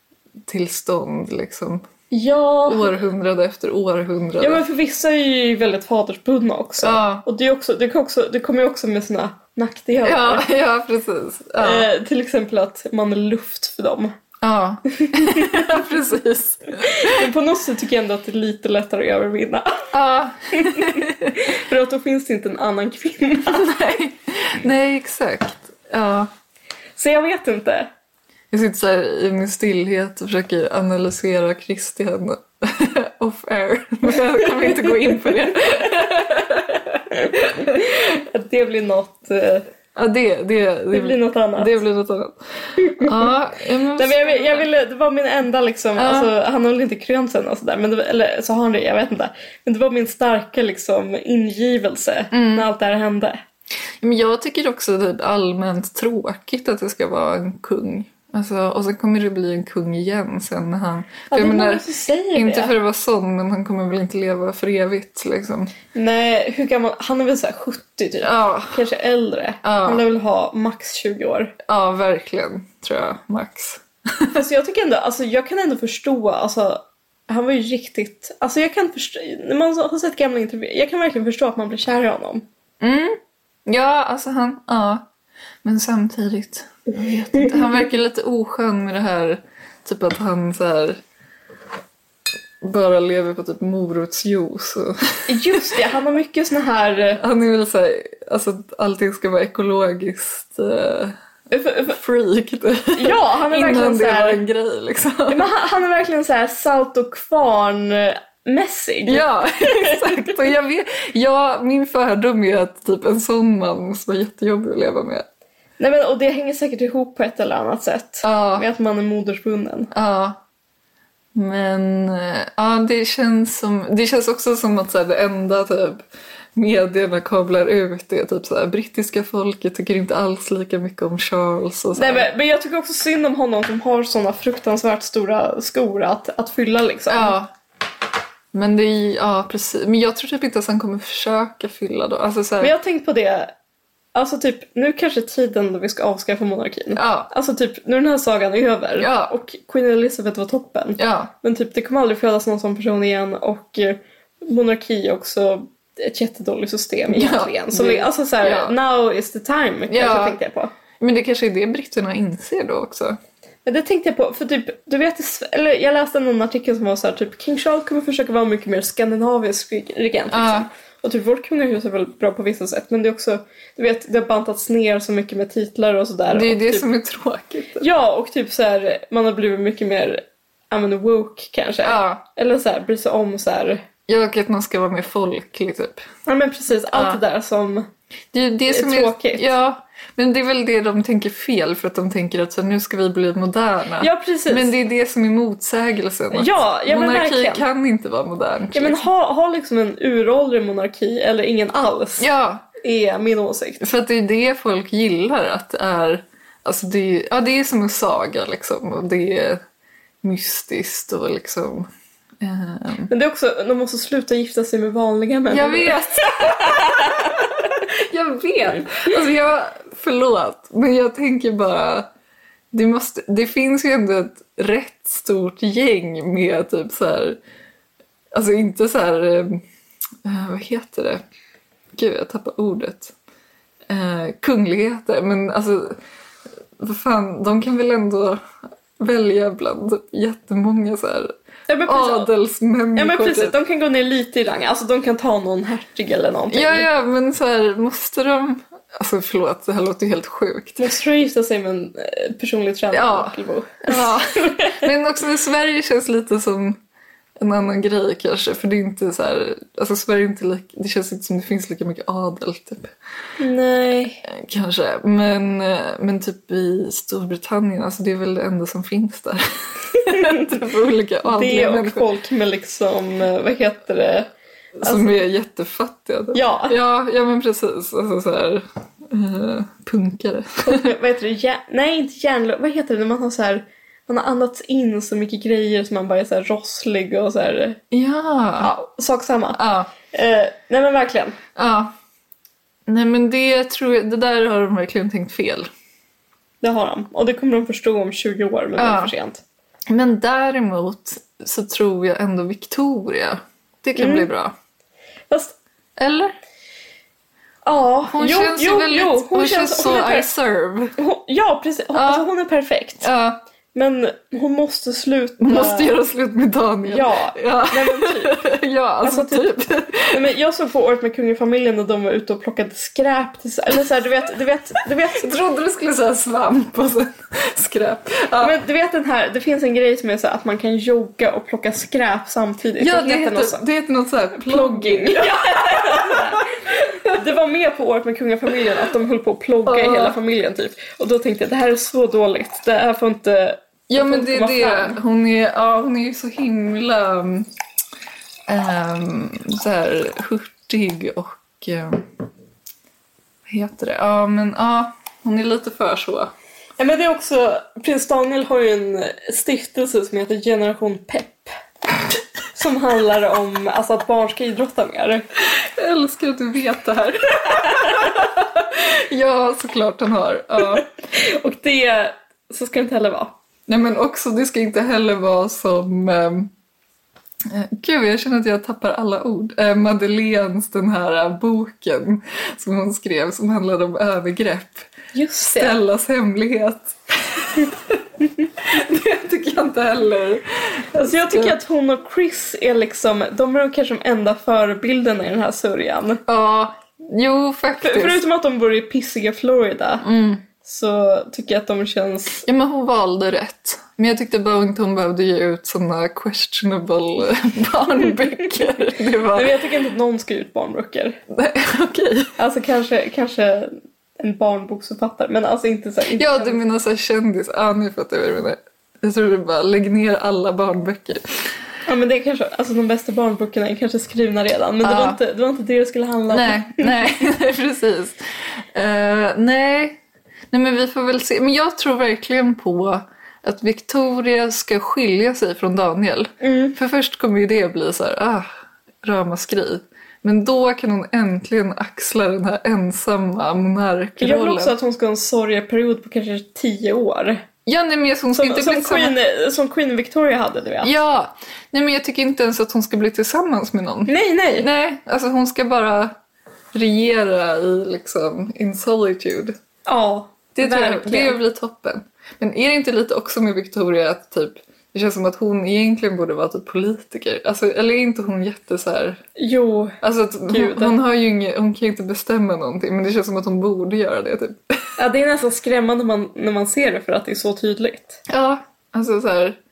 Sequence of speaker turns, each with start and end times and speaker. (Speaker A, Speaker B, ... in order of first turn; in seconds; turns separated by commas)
Speaker A: 0.5-1.8, Speaker B: 2.1-3.0, Speaker A: 2.7-4.6, Speaker B: 4.4-10.5, Speaker A: 6.8-7.2, Speaker A: 10.0-11.9, Speaker B: 11.6-14.1, Speaker A: 14.4-17.3, Speaker B: 14.9-15.7, Speaker B: 16.8-19.9, Speaker A: 19.9-21.4, Speaker B: 20.5-23.7, Speaker A: 23.4-26.3, Speaker B: 27.0-27.9, Speaker A: 28.5-37.9, Speaker B: 34.6-35.1, Speaker B: 37.1-39.6, Speaker A: 39.9-44.7, Speaker B: 40.9-41.8, Speaker B: 42.8-43.3, Speaker B: 44.0-53.4, Speaker A: 46.0-46.3, Speaker A: 52.3-52.6, Speaker A: 54.0-61.8, Speaker B: 61.3-62.7, Speaker A: 62.3-65.7, Speaker B: 65.9-71.5, Speaker A: 68.2-68.8, Speaker A: 69.6-70.0, Speaker A: 71.6-74.4, Speaker B: 74.3-82.4, Speaker A: 82.8-85.0, Speaker A: 85.6-91.0, Speaker A: 92.6-95.6, Speaker B: 95.3-97.2, Speaker A: 97.2-101.1, Speaker B: 101.5-102.0, Speaker A: 101.9-105.5, Speaker B: 102.9-104.4, Speaker B: 105.3-110.3, Speaker A: 109.1-115.2, Speaker B: 115.8-119.9, Speaker A: 118.2-118.6, Speaker A: 119.9-120.4, Speaker A: 121.3-126.0, Speaker A: 126.5-132.3, Speaker B: 131.9-137.4, Speaker A: 137.1-137.5, Speaker A: 138.5-142.7, Speaker B: 142.6-143.5, Speaker B: 144.1-160.7, Speaker A: 146.9-147.3, Speaker A: 149.0-149.3, Speaker A: 151.0-151.3, Speaker A: 157.1-158.7, Speaker A: 159.9-160.4, Speaker A: 161.0-163.2, Speaker B: 163.7-176.8, Speaker A: 170.3-170.7, Speaker A: 176.3-177.9, Speaker B: 177.8-183.8, Speaker A: 181.8-182.2, Speaker A: 184.1-186.0, Speaker B: 186.2-187.9, Speaker A: 186.9-187.2, Speaker A: 188.3-199.1, Speaker B: 188.7-189.5, Speaker B: 194.0-194.7, Speaker B: 196.3-197.6, Speaker B: 198.7-203.9, Speaker A: 202.2-202.7, Speaker A: 203.8-209.6, Speaker A: 210.2-211.9, Speaker A: 212.4-213.1, Speaker B: 213.1-217.7, Speaker A: 215.5-222.1, Speaker A: 222.7-227.4, Speaker A: 228.3-229.6, Speaker A: 230.2-231.2, Speaker A: 231.9-233.1, Speaker A: 233.9-236.0, Speaker A: 236.8-238.4, Speaker A: 239.0-241.3, Speaker B: 241.7-242.3, Speaker A: 241.9-243.5, Speaker B: 242.9-246.9, Speaker A: 246.5-250.9, Speaker B: 250.8-254.9, Speaker A: 252.9-256.8, Speaker A: 257.4-262.9, Speaker B: 263.4-264.2, Speaker A: 264.2-272.1, Speaker B: 270.0-270.5, Speaker B: 271.2-274.3, Speaker B: 274.8-275.2, Speaker A: 274.8-280.9, Speaker B: 276.3-276.8, Speaker B: 280.6-287.8, Speaker A: 287.9-288.7, Speaker B: 288.6-289.6, Speaker A: 289.6-289.9, Speaker B: 290.1-291.4, Speaker A: 291.6-291.9, Speaker A: 292.9-295.7, Speaker B: 296.6-299.4, Speaker A: 298.8-299.1, Speaker A: 299.9-304.5, Speaker B: 303.9-304.3, Speaker B: 305.3-305.6, Speaker A: 306.0-306.3, Speaker B: 307.6-310.3, Speaker A: 308.1-310.9, Speaker B: 311.0-313.1, Speaker A: 311.9-312.3, Speaker A: 313.0-313.4, Speaker B: 313.7-315.9, Speaker A: 315.4-320.2, Speaker B: 316.9-318.4, Speaker B: 319.0-319.5, Speaker B: 320.1-325.3, Speaker A: 325.1-328.5, Speaker B: 328.4-333.6, Speaker A: 332.8-336.4, Speaker B: 334.4-336.5, Speaker B: 337.0-345.0, Speaker A: 339.6-340.2, Speaker A: 343.9-347.5, Speaker A: 348.5-352.1, Speaker A: 353.5-356.3, Speaker B: 356.8-361.5, Speaker B: 362.5-365.2, Speaker A: 365.5-370.9, Speaker B: 371.1-373.4, Speaker A: 373.7-376.5, Speaker A: 377.4-384.9, Speaker B: 385.1-385.8, Speaker A: 385.5-388.0, Speaker A: 388.6-391.6, Speaker B: 391.0-396.2, Speaker A: 396.3-398.2, Speaker B: 397.8-400.0, Speaker A: 400.0-400.4, Speaker B: 400.6-402.4, Speaker A: 402.4-409.5, Speaker B: 409.3-411.2, Speaker A: 411.3-412.4, Speaker B: 412.4-416.6, Speaker A: 416.1-421.5, Speaker B: 421.9-427.1, Speaker A: 424.8-425.2, Speaker A: 426.3-430.0, Speaker A: 430.5-438.5, Speaker B: 436.4-436.8, Speaker A: 439.0-444.7, Speaker B: 444.2-447.4, Speaker A: 447.6-449.1, Speaker B: 448.3-450.9, Speaker A: 450.8-456.1, Speaker B: 454.1-454.7, Speaker A: 456.7-459.6, Speaker B: 459.9-461.4, Speaker A: 460.5-469.2, Speaker B: 469.4-470.0, Speaker A: 470.0-474.7, Speaker B: 470.5-470.9, Speaker B: 475.0-478.2, Speaker A: 478.3-479.6